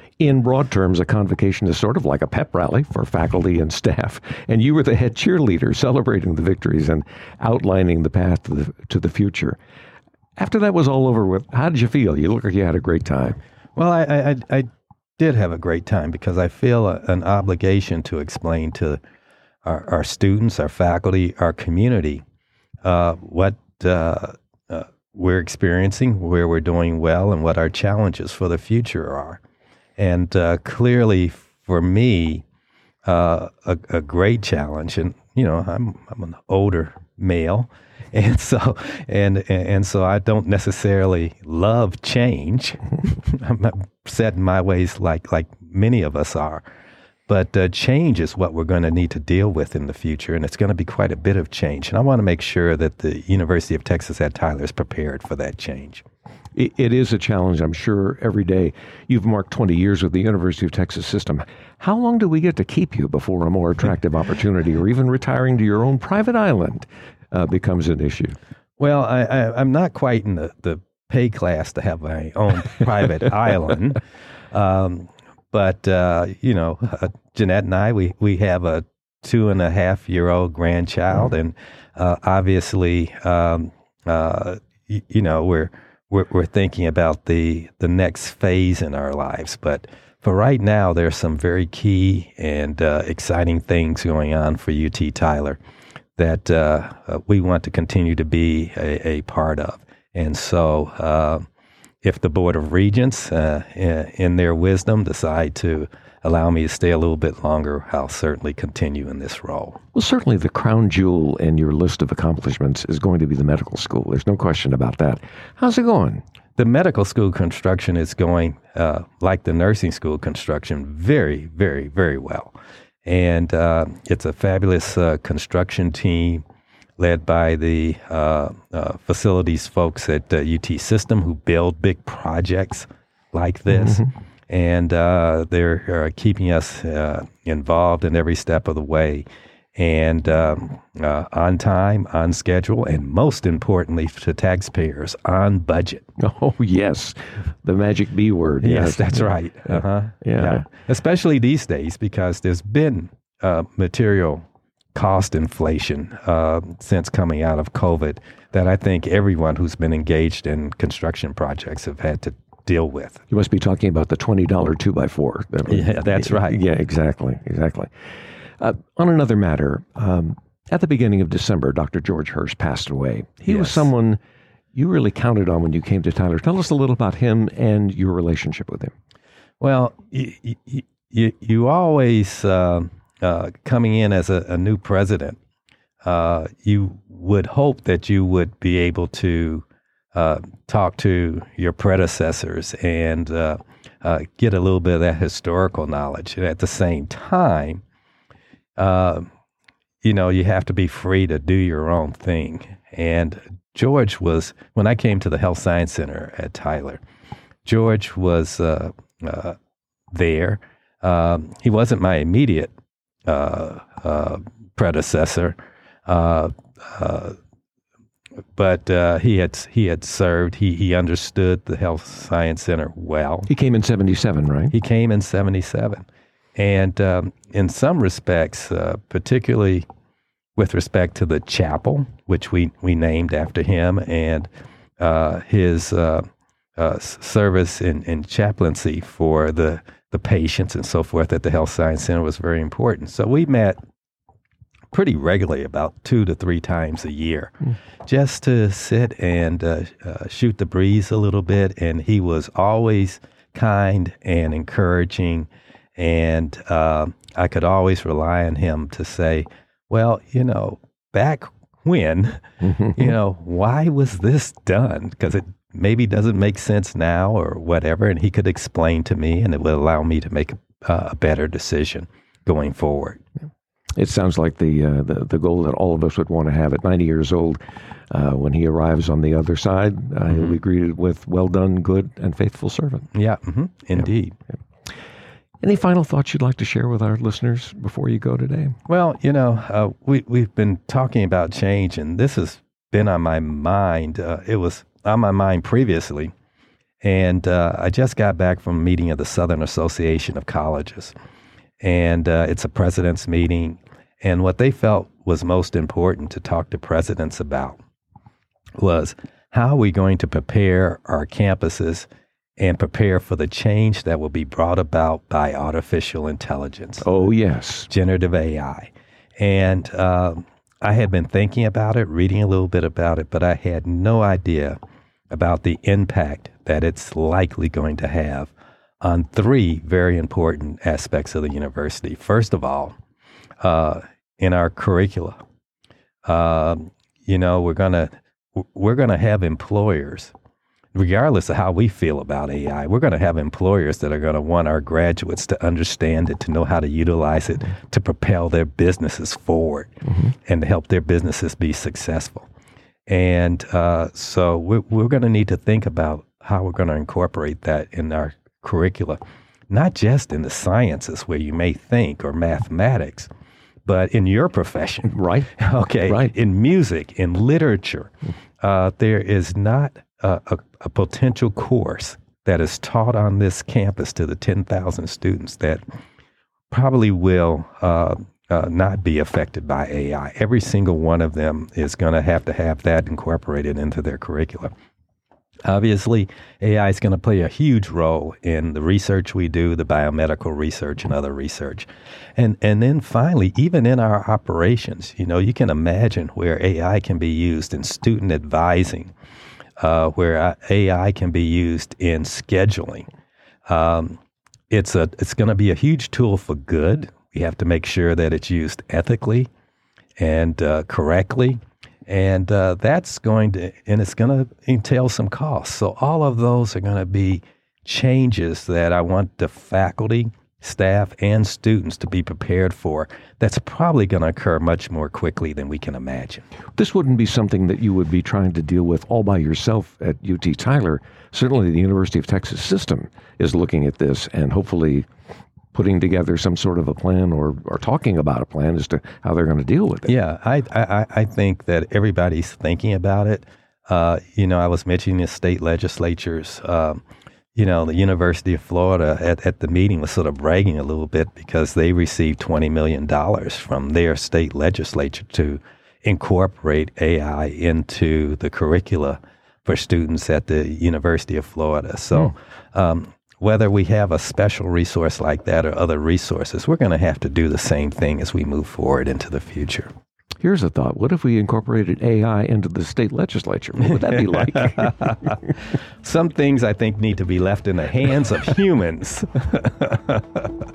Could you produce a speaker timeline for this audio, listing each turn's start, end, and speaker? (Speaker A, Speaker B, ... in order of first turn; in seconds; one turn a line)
Speaker A: 0.2-9.6
Speaker A: 10.4-13.4
Speaker B: 13.8-14.7
Speaker B: 15.2-19.0
Speaker B: 19.6-22.2
Speaker B: 22.8-29.4
Speaker B: 30.0-32.4
Speaker B: 33.0-46.6
Speaker B: 47.3-56.0
Speaker A: 56.5-68.4
Speaker B: 68.8-74.0
Speaker B: 74.5-95.6
Speaker B: 96.2-101.4
Speaker B: 102.0-109.8
Speaker A: 109.9-116.2
Speaker B: 116.6-122.5
Speaker B: 123.0-126.4
Speaker B: 127.0-146.1
Speaker A: 146.2-149.3
Speaker B: 148.6-163.2
Speaker A: 150.2-150.6
Speaker A: 163.3-167.9
Speaker B: 165.7-166.6
Speaker A: 168.6-174.2
Speaker B: 173.4-173.9
Speaker A: 174.7-178.9
Speaker B: 179.6-185.4
Speaker B: 186.0-197.8
Speaker B: 198.8-199.3
Speaker B: 200.0-207.0
Speaker B: 207.6-209.6
Speaker B: 210.1-212.7
Speaker B: 213.2-215.6
Speaker B: 216.1-217.4
Speaker B: 218.5-223.5
Speaker A: 223.5-224.7
Speaker B: 224.7-229.9
Speaker B: 230.6-234.5
Speaker B: 235.0-236.2
Speaker B: 236.8-243.8
Speaker B: 244.9-247.5
Speaker B: 248.0-273.2
Speaker A: 273.9-283.1
Speaker B: 283.1-284.4
Speaker A: 285.6-288.8
Speaker B: 288.9-296.3
Speaker B: 297.0-301.1
Speaker B: 301.8-307.8
Speaker B: 308.8-312.1
Speaker B: 312.6-317.1
Speaker A: 317.0-317.9
Speaker B: 317.9-324.8
Speaker B: 325.3-332.9
Speaker B: 333.6-335.4
Speaker B: 336.2-340.3
Speaker B: 340.9-349.9
Speaker B: 350.4-352.5
Speaker B: 353.1-363.3
Speaker B: 363.9-368.1
Speaker A: 365.1-365.5
Speaker A: 366.1-366.3
Speaker B: 368.6-375.8
Speaker B: 376.7-384.7
Speaker B: 385.6-399.1
Speaker B: 399.8-403.1
Speaker B: 403.7-404.2
Speaker B: 404.7-409.5
Speaker B: 410.2-426.4
Speaker A: 426.8-435.1
Speaker A: 435.7-440.1
Speaker B: 440.1-447.0
Speaker B: 447.5-469.9
Speaker A: 470.4-475.1
Speaker B: 474.9-475.3
Speaker B: 476.0-480.4